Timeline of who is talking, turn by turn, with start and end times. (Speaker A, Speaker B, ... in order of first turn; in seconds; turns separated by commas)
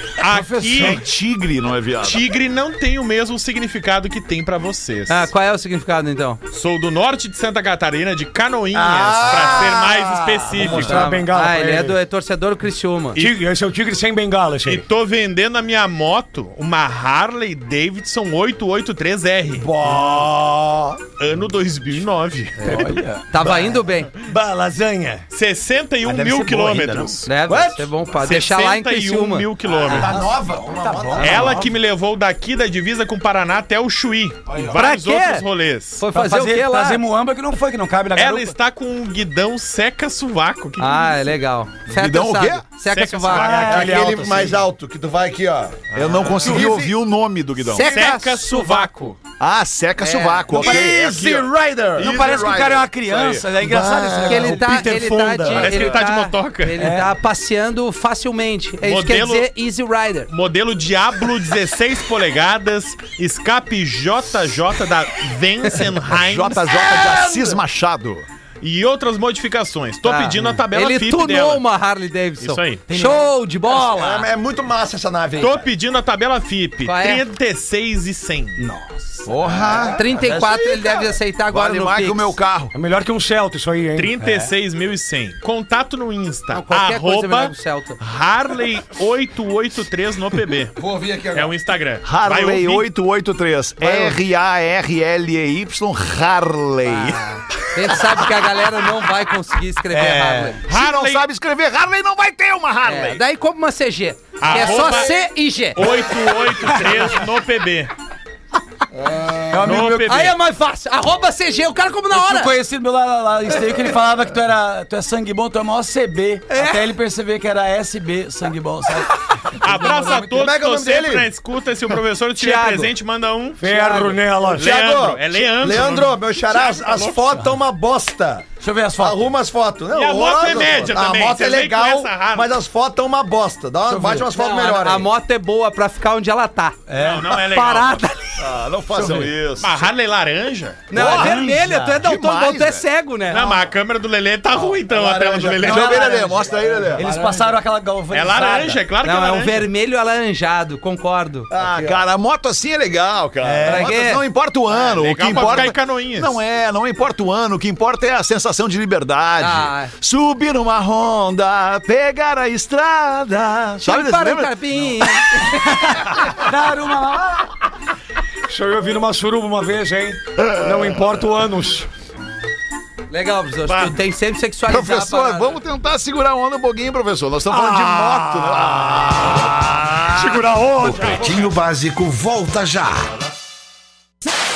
Speaker A: 0.2-1.0, Speaker B: 0.3-1.0, Speaker C: 0.7-2.2, Speaker A: 2.0-5.3, Speaker D: 5.1-6.4, Speaker A: 6.5-11.0, Speaker E: 8.8-10.1, Speaker F: 10.5-12.0, Speaker D: 10.7-13.2, Speaker F: 13.2-14.8, Speaker A: 14.7-19.7, Speaker E: 19.8-20.4, Speaker B: 19.8-20.3, Speaker A: 21.2-23.0, Speaker B: 22.6-23.3, Speaker D: 22.6-24.1, Speaker F: 24.2-25.2, Speaker A: 25.3-27.3, Speaker B: 26.0-27.1, Speaker D: 27.2-29.5, Speaker E: 27.5-27.8, Speaker A: 28.1-30.2, Speaker E: 29.8-31.7, Speaker B: 29.8-31.7, Speaker A: 31.2-36.0, Speaker B: 34.5-34.8, Speaker D: 34.7-35.4, Speaker D: 36.0-37.0, Speaker B: 36.1-38.5, Speaker A: 38.1-41.3, Speaker D: 40.8-43.7, Speaker C: 41.9-42.6, Speaker A: 42.9-43.8, Speaker B: 43.3-44.3, Speaker F: 43.6-44.6, Speaker E: 43.6-46.0, Speaker C: 45.9-47.9, Speaker A: 46.1-46.8, Speaker B: 46.4-46.9, Speaker D: 47.7-48.9, Speaker A: 47.8-49.2, Speaker C: 49.4-54.1, Speaker D: 50.0-50.7, Speaker E: 50.5-52.1, Speaker B: 50.6-50.9, Speaker B: 52.0-55.7, Speaker E: 53.7-54.5, Speaker D: 54.2-60.3, Speaker F: 54.7-55.6, Speaker A: 55.5-56.8, Speaker B: 56.8-57.1, Speaker A: 58.8-59.5, Speaker A: 60.3-66.8, Speaker C: 66.1-68.2, Speaker A: 68.6-71.6, Speaker D: 70.0-74.3, Speaker A: 72.4-72.8, Speaker B: 72.9-73.3, Speaker E: 73.7-75.7, Speaker A: 75.4-78.6, Speaker D: 76.8-77.2, Speaker B: 78.6-79.3, Speaker C: 79.2-82.7, Speaker E: 79.4-80.5, Speaker D: 79.9-82.4, Speaker F: 82.7-84.2, Speaker A: 84.0-92.9, Speaker D: 86.5-88.0, Speaker E: 90.8-91.5, Speaker C: 92.0-97.2, Speaker D: 96.8-100.6, Speaker C: 98.0-98.3, Speaker B: 99.9-100.6, Speaker C: 100.7-103.2, Speaker A: 100.7-101.2, Speaker D: 102.8-106.0, Speaker A: 104.4-105.2, Speaker A: 105.7-107.9, Speaker B: 106.4-107.0, Speaker B: 109.5-110.3, Speaker A: 109.6-110.3, Speaker D: 109.8-112.5, Speaker B: 112.1-120.5, Speaker D: 116.5-116.9, Speaker A: 119.6-123.6, Speaker E: 120.3-121.3, Speaker D: 122.4-122.9, Speaker F: 123.6-124.8, Speaker D: 123.7-124.1, Speaker A: 124.5-127.4, Speaker E: 124.5-135.1, Speaker B: 128.6-129.3, Speaker A: 129.9-132.5, Speaker B: 133.8-134.3, Speaker D: 134.3-138.2, Speaker B: 136.9-137.3, Speaker A: 136.9-138.0, Speaker C: 138.4-139.9, Speaker B: 138.9-139.3, Speaker A: 139.6-140.9, Speaker D: 140.9-143.6, Speaker C: 140.9-142.8, Speaker B: 140.9-142.0, Speaker A: 143.3-146.1, Speaker E: 144.5-147.4, Speaker B: 145.6-146.3, Speaker C: 145.6-147.1, Speaker B: 146.9-148.8, Speaker A: 148.1-149.7, Speaker D: 149.0-151.5, Speaker C: 151.5-165.0, Speaker E: 151.5-152.0, Speaker B: 153.4-153.9, Speaker D: 153.6-154.2, Speaker A: 154.8-156.4, Speaker D: 159.4-159.9, Speaker D: 163.8-166.0, Speaker B: 166.1-167.5, Speaker F: 168.5-171.9, Speaker D: 173.1-175.6, Speaker A: 173.7-173.9, Speaker C: 174.7-181.1, Speaker F: 177.5-181.3, Speaker G: 180.8-183.1